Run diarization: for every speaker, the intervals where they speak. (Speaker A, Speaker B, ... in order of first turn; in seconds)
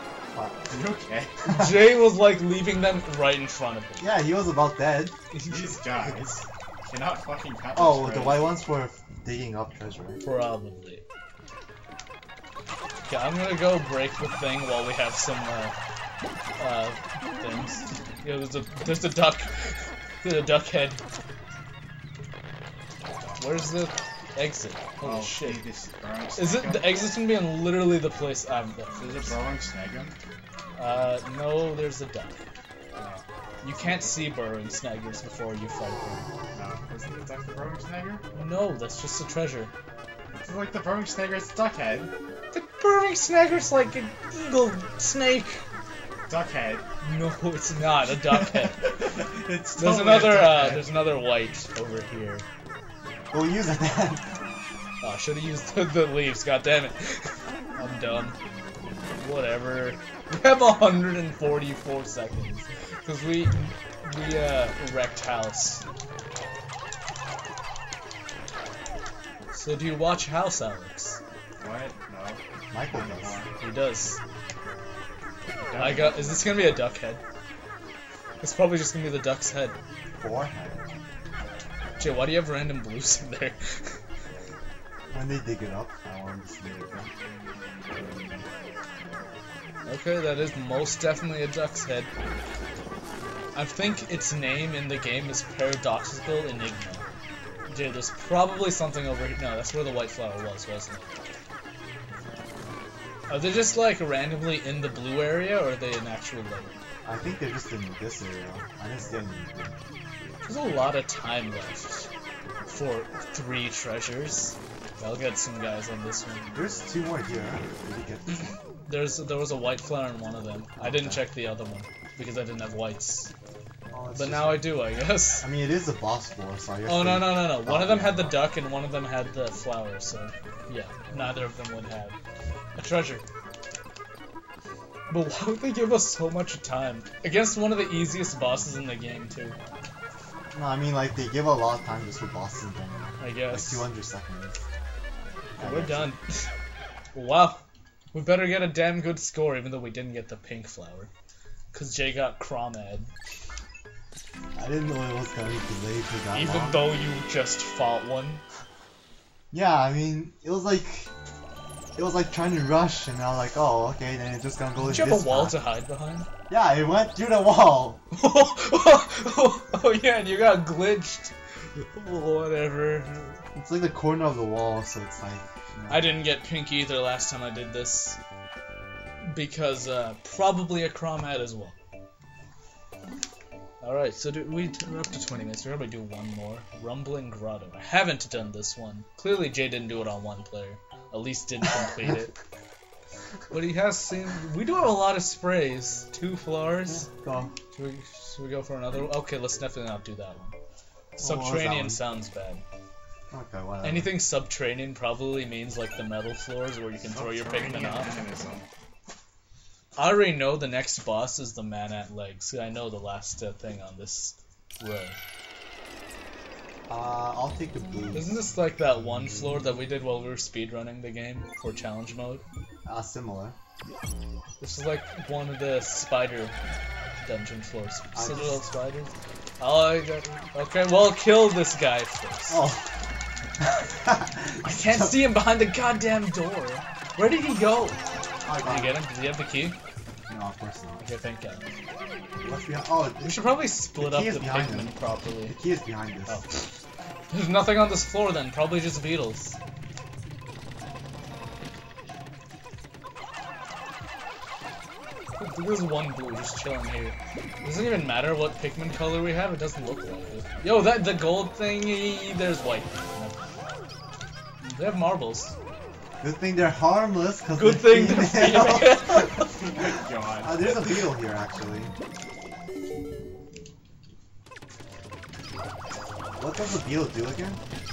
Speaker A: 0.3-0.6, 4.0-5.1, 7.7-10.2, 53.3-54.3, 72.7-73.4, 80.2-80.8, 85.1-87.1, 107.0-109.7, 116.5-118.5, 120.8-121.2, 123.9-124.8, 125.4-128.4, 140.5-144.6, 145.6-146.1, 154.6-156.9, 159.5-161.1, 161.9-165.6, 166.5-168.0, 173.6-176.1, 196.9-197.5, 201.2-202.0, 203.3-204.1, 216.9-218.3, 222.8-223.5, 228.1-228.6, 232.5-232.8, 233.6-235.2, 238.4-239.0, 240.3-241.0, 242.4-243.4, 243.9-246.4, 266.2-269.3, 270.4-271.9, 276.4-277.6
Speaker B: 0.7-1.3, 5.5-8.5, 25.0-27.1, 29.0-30.1, 32.9-33.2, 36.5-38.2, 40.4-42.1, 46.3-46.8, 48.3-50.9, 71.6-73.5, 75.6-76.5, 207.1-208.6, 269.4-271.0
Speaker C: 1.5-4.1, 5.3-5.7, 10.2-11.0, 13.1-15.7, 16.6-21.0, 23.4-25.6, 26.4-29.3, 30.8-32.4, 33.6-36.2, 38.3-39.7, 42.5-45.6, 47.0-48.8, 49.8-52.4, 55.0-58.4, 59.2-65.8, 69.5-71.2, 73.6-74.2, 75.8-77.2, 78.4-79.8, 82.0-83.6, 89.8-92.1, 93.5-97.0, 97.7-101.2, 103.3-106.8, 110.5-112.1, 112.7-116.5, 118.9-123.3, 124.1-125.5, 126.8-132.2, 132.8-133.2, 135.1-139.6, 143.2-143.9, 145.6-146.4, 147.1-147.6, 148.1-151.1, 151.7-153.1, 156.3-158.4, 164.8-166.3, 168.1-173.4, 175.9-178.2, 179.2-181.8, 183.8-192.3, 193.5-197.1, 197.7-200.5, 201.2-202.6, 203.8-208.1, 209.9-215.2, 218.1-222.4, 224.6-226.5, 227.2-232.6, 234.7-238.0, 238.6-239.8, 241.0-241.6, 243.2-245.6, 247.3-249.6, 255.4-263.4, 264.6-265.5, 267.5-269.5